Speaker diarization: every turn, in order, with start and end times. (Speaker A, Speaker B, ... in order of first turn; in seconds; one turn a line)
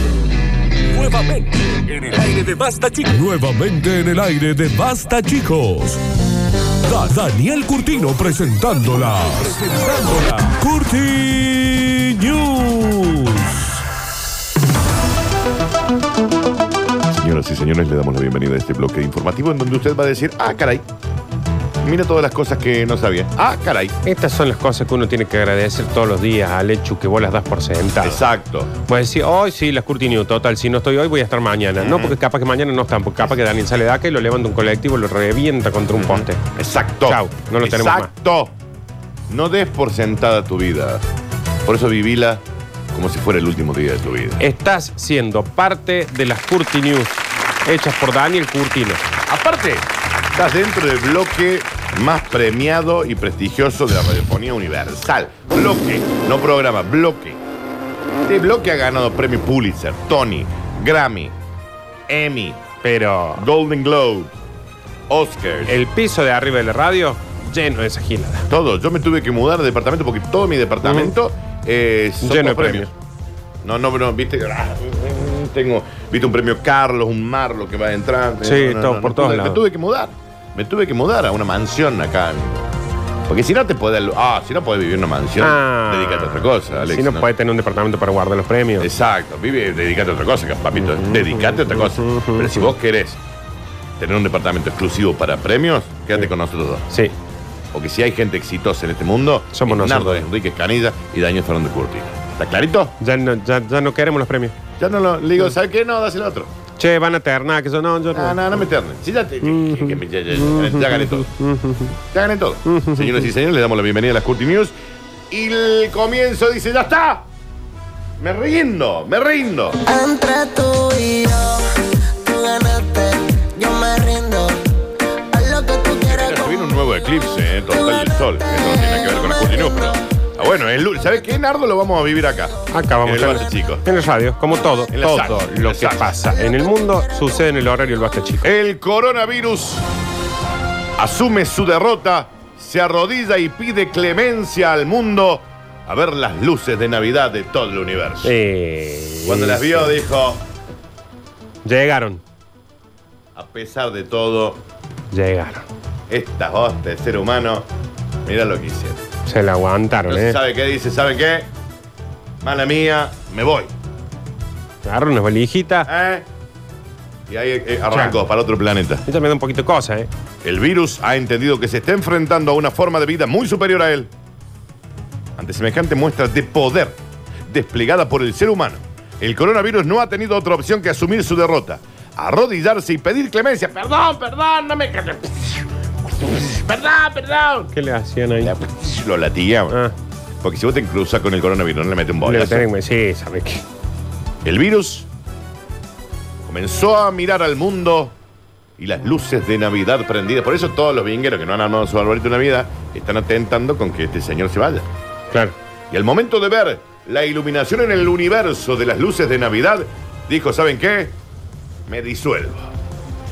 Speaker A: 0.9-6.0
Speaker A: 6.8-13.8
Speaker B: 17.1-20.8
Speaker B: 21.8-23.9
Speaker C: 24.0-28.2
Speaker B: 28.0-28.7
Speaker C: 28.8-36.4
Speaker B: 31.8-32.1
Speaker B: 35.9-38.5
Speaker C: 37.1-38.1
Speaker B: 39.3-41.0
Speaker B: 41.6-44.4
Speaker C: 44.4-49.0
Speaker B: 49.3-57.4
Speaker B: 58.2-61.3
Speaker B: 62.1-62.6
Speaker C: 62.8-63.4
Speaker B: 63.4-64.3
Speaker B: 65.1-65.8
Speaker C: 65.7-68.5
Speaker B: 68.5-72.9
Speaker C: 70.8-71.1
Speaker C: 72.2-72.9
Speaker B: 73.6-82.6
Speaker C: 78.4-79.6
Speaker B: 83.3-87.3
Speaker C: 85.4-88.9
Speaker B: 88.8-93.2
Speaker C: 90.8-92.7
Speaker B: 94.0-96.9
Speaker B: 97.7-102.9
Speaker C: 99.5-100.2
Speaker C: 103.0-104.5
Speaker B: 104.8-106.5
Speaker C: 106.8-108.6
Speaker B: 108.1-111.3
Speaker C: 109.4-112.0
Speaker B: 112.1-114.7
Speaker C: 112.7-113.2
Speaker B: 115.3-117.2
Speaker B: 118.2-119.8
Speaker D: 119.8-124.6
Speaker D: 125.3-126.7
Speaker B: 126.0-133.8
Speaker D: 128.5-129.7
Speaker C: 132.7-138.5
Speaker B: 134.9-136.2
Speaker B: 138.4-139.8
Speaker B: 141.0-148.3
Speaker C: 148.2-150.0
Speaker B: 149.2-150.4
Speaker C: 151.6-152.2
Speaker B: 153.3-154.6
Speaker C: 155.1-155.7
Speaker B: 156.1-157.7
Speaker B: 158.2-159.0
Speaker C: 159.2-160.4
Speaker B: 160.1-161.5
Speaker B: 162.4-163.7
Speaker C: 164.8-165.9
Speaker B: 165.8-166.2
Speaker B: 167.3-169.0
Speaker C: 167.9-168.2
Speaker C: 169.1-170.1
Speaker B: 170.4-174.1
Speaker B: 175.4-187.7
Speaker C: 187.7-188.6
Speaker B: 188.4-189.8
Speaker B: 190.4-192.7
Speaker C: 192.2-193.6
Speaker B: 194.4-195.1
Speaker B: 196.4-198.2
Speaker B: 198.8-204.9
Speaker B: 205.9-211.2
Speaker B: 211.9-212.7